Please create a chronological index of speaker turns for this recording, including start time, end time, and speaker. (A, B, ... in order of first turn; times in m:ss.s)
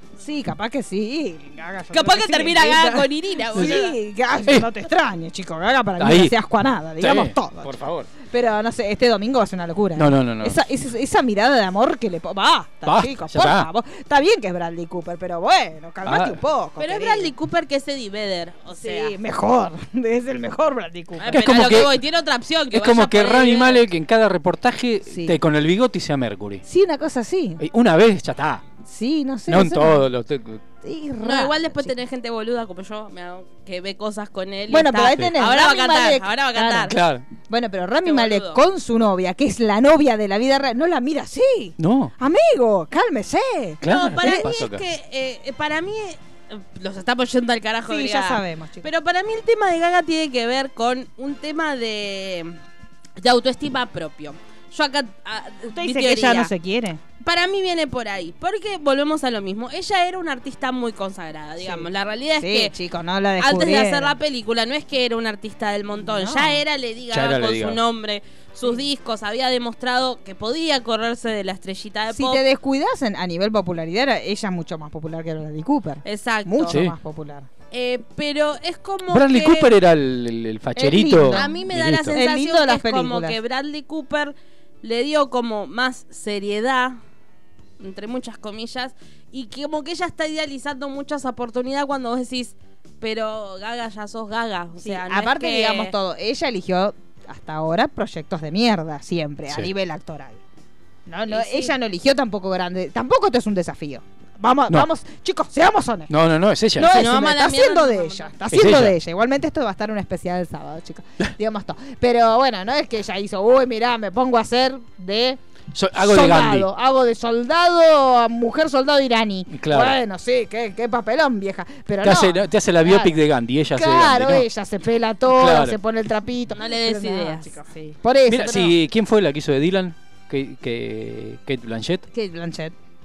0:00.2-0:17.3 A
0:01.9-0:03.9 B
0:03.5-0:03.9 C
0:06.0-0:06.4 C
0:07.0-0:08.1 C
0:10.0-0:10.6 C
0:12.8-0:13.7 C
0:16.0-0:16.4 C
0:16.8-0:19.1 B
0:18.8-0:21.4 A
0:21.2-0:23.8 B
0:21.3-0:22.0 C
0:22.7-0:26.6 C
0:25.1-0:25.4 A
0:26.6-0:27.6 A
0:27.6-0:28.6 C
0:28.8-0:30.0 A
0:29.5-0:30.6 C
0:30.8-0:31.9 A
0:31.2-0:37.0 B
0:34.7-0:37.0 A
0:36.9-0:37.2 C
0:37.5-0:44.5 A
0:38.0-0:38.6 B
0:41.8-0:42.1 C
0:43.8-0:44.8 C
0:43.8-0:52.6 B
0:47.9-0:48.9 A
0:53.2-0:56.5 B
0:55.7-0:57.0 A
0:57.2-1:02.7 B
1:01.6-1:01.9 A
1:02.4-1:04.1 A
1:03.4-1:12.4 B
1:06.0-1:06.6 A
1:07.1-1:07.8 C
1:12.1-1:17.5 A
1:16.0-1:16.8 B
1:16.7-1:16.9 C
1:17.7-1:19.7 B
1:19.1-1:22.2 C
1:20.8-1:21.6 A
1:21.3-1:27.0 B
1:22.1-1:23.4 A
1:27.8-1:35.9 B
1:34.8-1:40.4 A
1:41.1-1:46.1 A
1:41.3-1:41.7 B
1:46.1-1:47.0 C
1:46.8-1:55.4 A
1:46.9-1:48.3 B
1:48.5-1:48.9 C
1:55.7-1:56.7 C
1:55.9-2:03.1 A
1:59.5-2:00.0 C
2:02.0-2:04.4 C
2:03.7-2:08.7 A
2:05.3-2:05.8 C
2:06.5-2:07.6 B
2:08.2-2:12.0 C
2:12.1-2:12.7 A